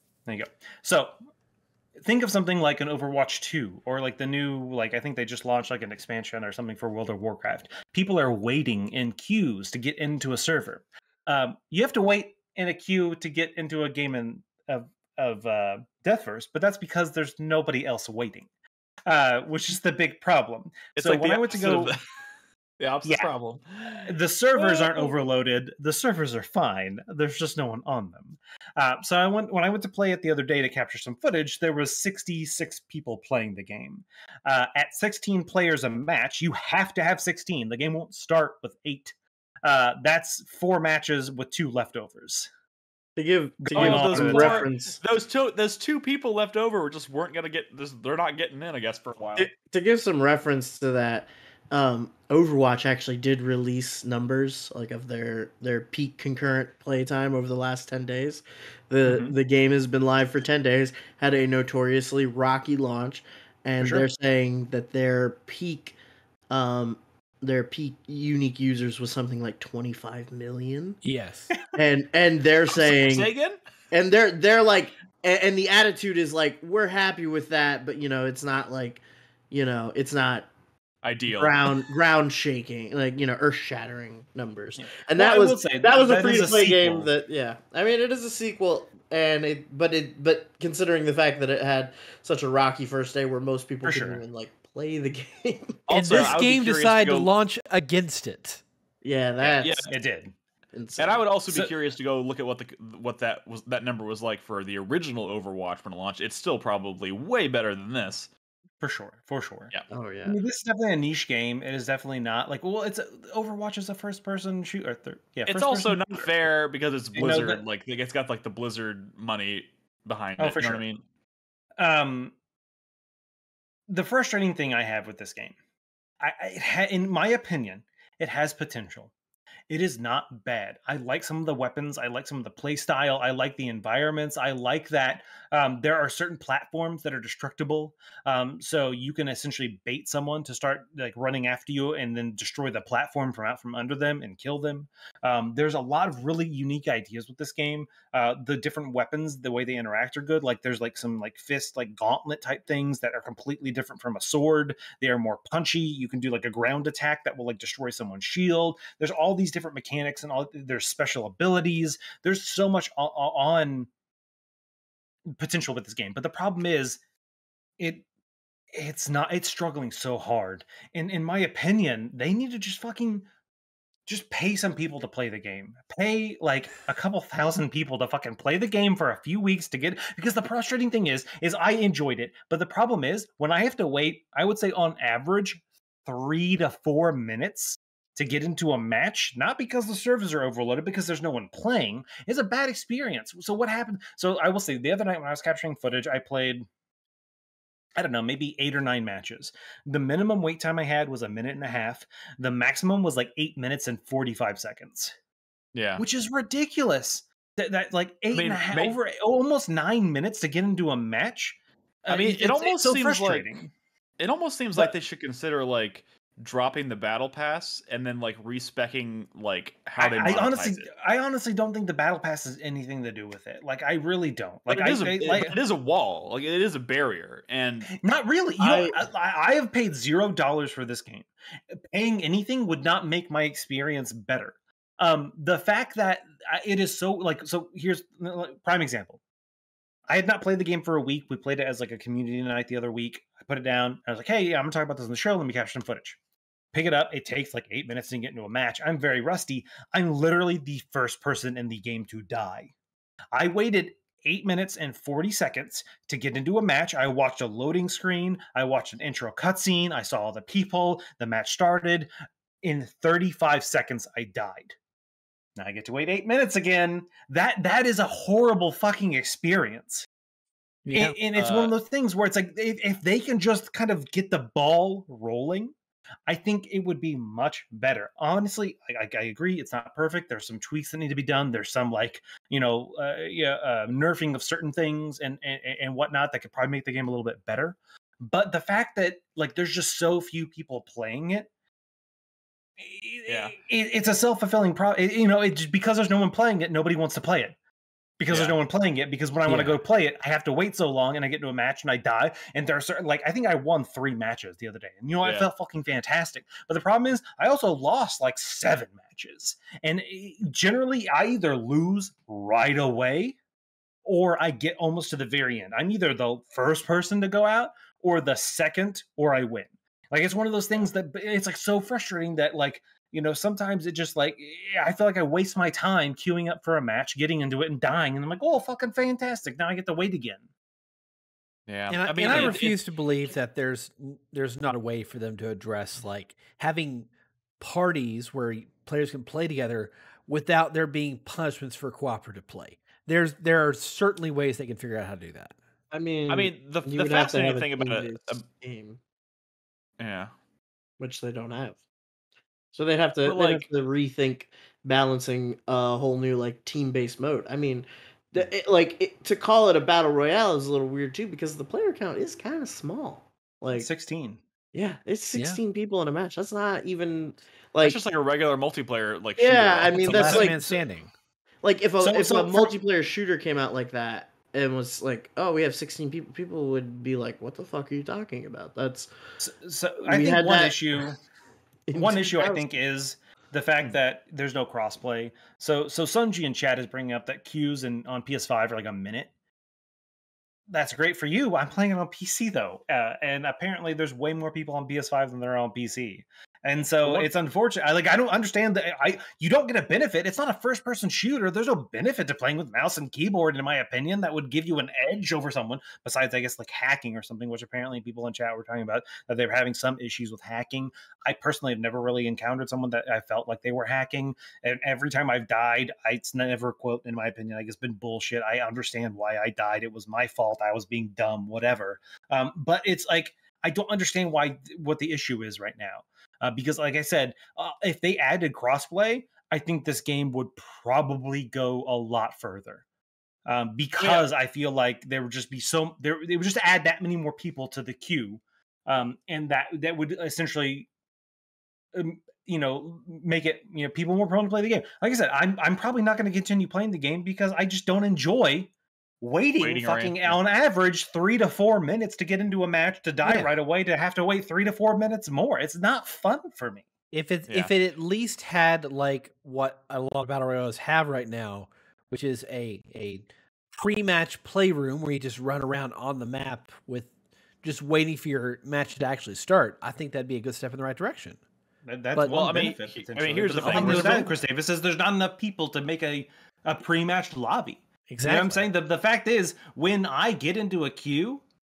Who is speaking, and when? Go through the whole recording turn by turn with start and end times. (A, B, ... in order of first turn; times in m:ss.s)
0:00.2-0:01.1 A
0:02.0-0:18.5 A
0:19.0-0:21.9 A
0:21.0-0:22.0 B
0:22.8-0:25.1 B
0:23.0-0:23.3 A
0:24.0-0:42.5 A
0:43.2-0:45.0 C
0:43.6-0:44.7 A
0:43.7-0:49.5 B
0:49.6-1:06.0 C
0:59.0-0:59.3 B
1:03.8-1:04.1 A
1:06.5-1:11.0 C
1:11.0-1:11.5 D
1:11.7-1:13.3 C
1:12.7-1:13.6 B
1:13.9-1:20.5 C
1:21.0-1:21.8 B
1:21.3-1:35.8 C
1:24.8-1:27.1 A
1:33.8-1:34.2 A
1:35.9-1:37.3 B
1:35.9-1:38.6 D
1:39.0-1:39.9 C
1:39.4-1:39.9 B
1:39.9-1:40.3 A
1:40.7-1:41.2 C
1:41.0-1:48.3 B
1:48.8-1:49.7 A
1:49.9-1:50.4 C
1:50.2-1:56.3 A
1:55.5-2:01.0 B
1:57.1-1:57.6 A
2:00.4-2:00.8 A
2:01.8-2:02.3 A
2:03.9-2:05.6 A
2:06.2-2:09.1 A
2:09.7-2:43.9 A
2:45.4-2:47.0 A
2:47.8-2:48.0 A
2:48.7-2:53.3 A
2:54.1-3:16.7 A
3:18.0-3:25.1 A
3:25.7-3:26.0 B
3:26.0-3:33.7 A
3:28.3-3:29.0 B
3:32.1-3:33.5 B
3:34.2-3:40.9 B
3:40.0-3:45.6 A
3:44.7-3:48.0 B
3:48.0-3:59.2 A
3:48.6-3:48.9 C
4:00.1-4:06.2 A
4:06.7-4:12.7 A
4:13.3-4:22.1 A
4:22.6-4:24.8 A
4:25.6-4:30.0 A
4:30.8-4:31.2 D
4:30.9-4:35.7 A
4:31.3-4:31.7 B
4:36.3-4:51.5 A
4:52.8-4:57.6 A
4:53.3-4:53.5 B
4:58.2-5:13.4 A
4:58.3-4:58.6 B
4:59.4-4:59.8 D
5:05.2-5:05.5 B
5:14.0-5:30.5 A
5:31.7-5:32.8 B
5:31.9-5:37.1 D
5:32.1-5:32.7 A
5:37.6-5:45.5 D
5:45.9-5:49.0 C
5:46.3-5:48.4 B
5:50.0-5:50.3 B
5:51.0-5:51.8 C
5:52.7-6:03.9 C
5:53.2-5:53.7 B
6:03.7-6:04.4 A
6:04.7-6:08.0 C
6:05.3-6:05.6 D
6:07.8-6:10.3 B
6:09.4-6:10.6 C
6:10.0-6:11.1 D
6:10.0-6:10.8 A
6:11.6-6:19.1 C
6:12.0-6:12.7 A
6:19.4-6:21.2 A
6:20.0-6:20.8 C
6:21.9-6:22.6 C
6:21.9-6:29.3 A
6:30.7-7:12.8 A
6:37.0-6:37.3 B
7:13.4-7:20.9 A
7:14.0-7:14.3 B
7:21.9-7:36.8 A
7:29.6-7:30.4 B
7:33.2-7:33.5 D
7:37.1-7:43.3 D
7:37.5-7:37.7 B
7:43.8-7:47.1 D
7:47.6-7:51.4 D
7:51.8-8:01.4 A
7:52.2-7:54.3 B
7:53.6-7:54.3 D
7:58.1-7:58.7 D